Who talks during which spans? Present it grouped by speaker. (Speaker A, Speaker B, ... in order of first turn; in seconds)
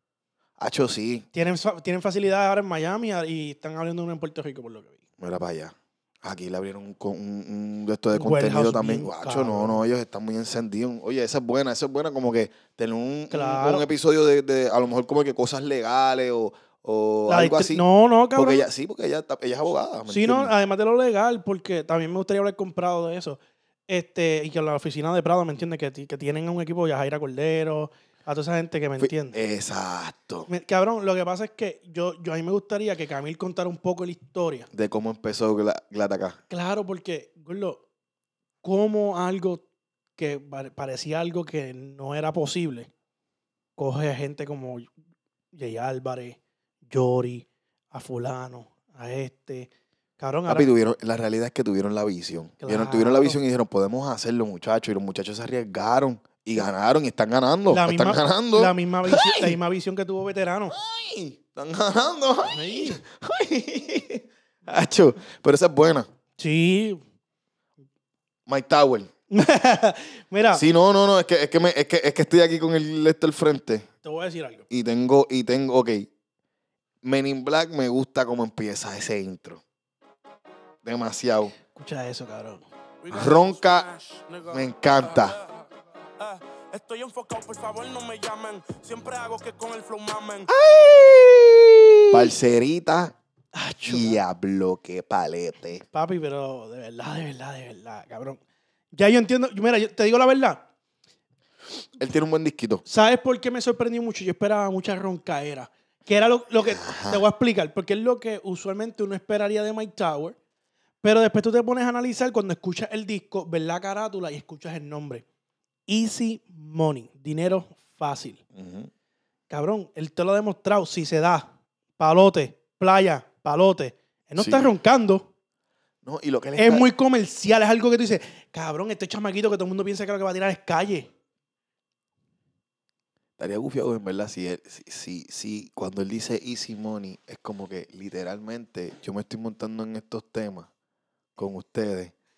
Speaker A: 0.6-1.2, 5.2-20.5, 29.0-30.5, 34.7-36.4, 50.5-59.6, 60.7-66.1, 68.5-69.1, 70.5-73.9, 74.7-76.1, 77.0-79.6, 80.8-81.5, 83.1-83.8, 84.5-85.4, 90.5-91.2, 92.1-93.1, 93.8-95.8, 102.0-102.8, 106.7-107.2, 118.5-118.9, 124.3-124.7, 126.0-126.9, 133.4-140.7, 141.3-142.1
Speaker B: 1.3-5.0, 8.1-9.8, 13.3-13.9, 17.3-18.6, 20.1-29.4, 30.5-34.7, 36.5-37.8, 38.6-39.6, 40.2-42.9, 43.8-44.9, 45.5-50.7, 52.6-53.4, 57.7-60.8, 62.5-63.0, 66.4-67.0, 69.3-70.6, 74.0-74.7, 81.7-82.6, 93.5-94.2, 95.9-98.4, 98.9-100.7, 102.8-110.3, 111.0-115.2, 115.9-118.4, 119.5-125.3, 126.6-131.1
Speaker C: 83.0-90.5